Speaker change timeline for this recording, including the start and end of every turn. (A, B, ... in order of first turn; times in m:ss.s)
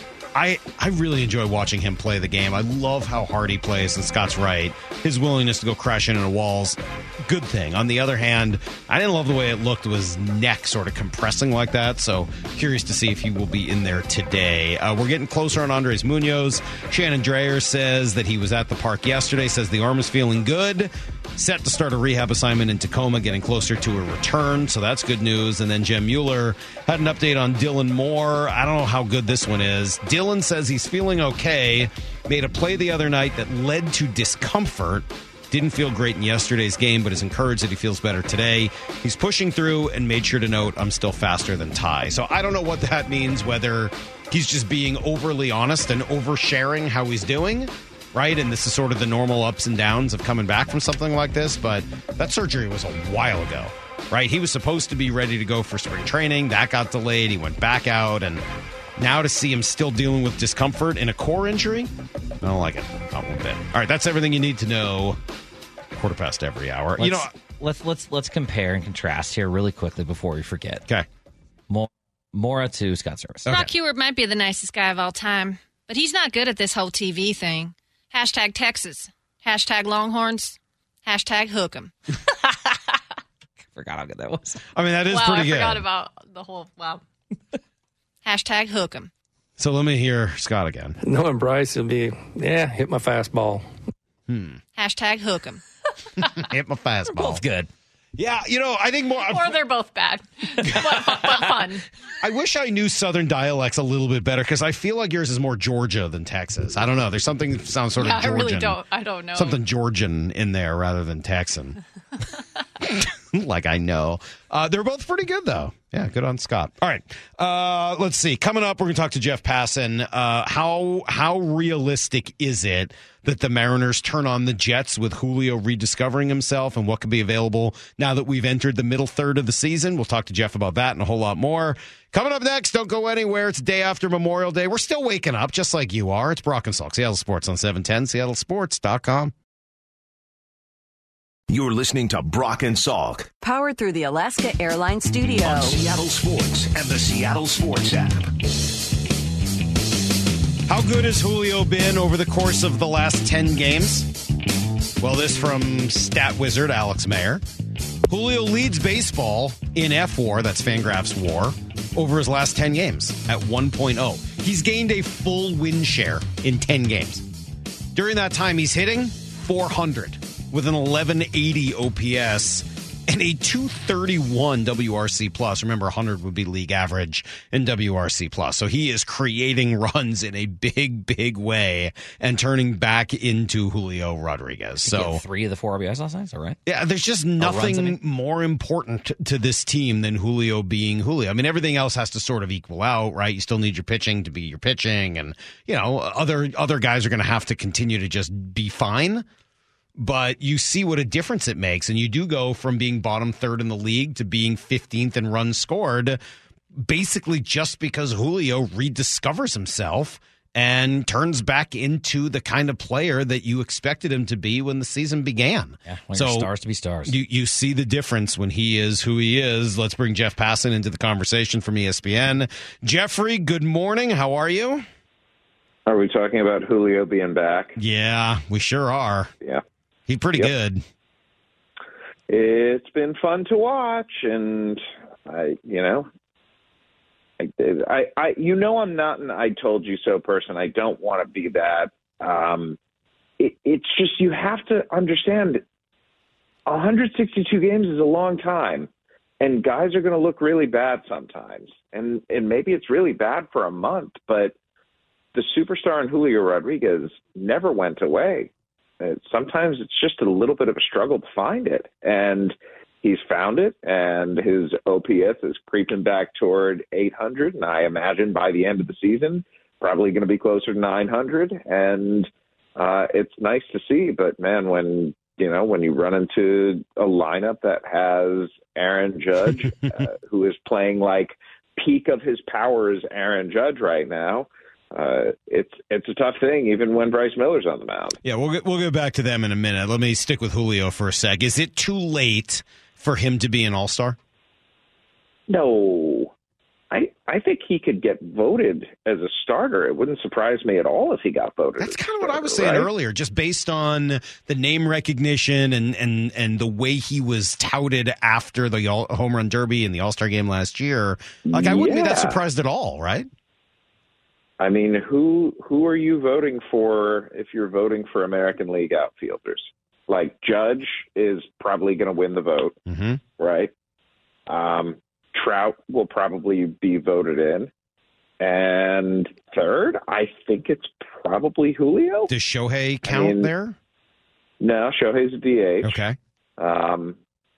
0:00.3-0:58.4 A
0:59.0-1:05.2 A
1:06.0-1:07.3 A
1:07.0-1:10.8 B
1:11.7-1:13.5 B
1:13.5-1:21.9 C
1:23.7-1:24.6 B
1:24.7-1:25.8 A
1:25.1-1:27.0 C
1:28.2-1:29.1 C
1:29.6-1:31.0 A
1:31.0-1:33.6 D
1:34.3-1:34.6 A
1:34.8-1:35.6 C
1:36.2-1:37.4 A
1:37.1-1:37.7 B
1:38.2-1:39.6 A
1:39.2-1:41.8 C
1:40.7-1:41.4 A
1:42.2-1:48.8 A
1:48.0-1:49.6 C
1:49.3-1:51.8 A
1:52.8-2:19.3 A
2:21.5-2:23.3 E
2:23.4-2:25.8 F
2:25.4-2:28.3 E
2:30.7-2:34.1 A
2:35.0-2:37.4 A
2:38.1-2:47.2 A
2:47.9-3:05.2 A
3:04.8-3:06.6 B
3:06.6-3:19.2 A
3:07.4-3:08.0 B
3:20.0-3:26.2 A
3:26.8-3:36.5 A
3:35.8-3:37.1 B
3:37.0-3:44.8 A
3:45.9-3:47.8 G
3:47.8-3:49.3 A
3:50.1-3:50.8 A
3:52.3-3:56.1 G
3:57.4-4:02.8 G
4:03.4-4:05.6 G
4:06.7-4:08.9 G
4:09.4-4:14.5 G
4:15.3-4:48.2 G
4:48.2-4:54.2 A
4:55.5-4:56.3 G
4:56.9-5:02.9 G
5:01.8-5:13.3 A
5:11.5-5:12.4 G
5:14.6-5:22.8 G
5:22.9-5:23.2 A
5:23.4-5:23.7 G
5:24.5-5:27.7 G
5:28.4-5:32.3 G
5:32.3-5:33.8 A
5:33.0-5:33.5 G
5:34.6-5:36.0 G
5:35.8-5:36.2 A
5:36.6-5:37.2 G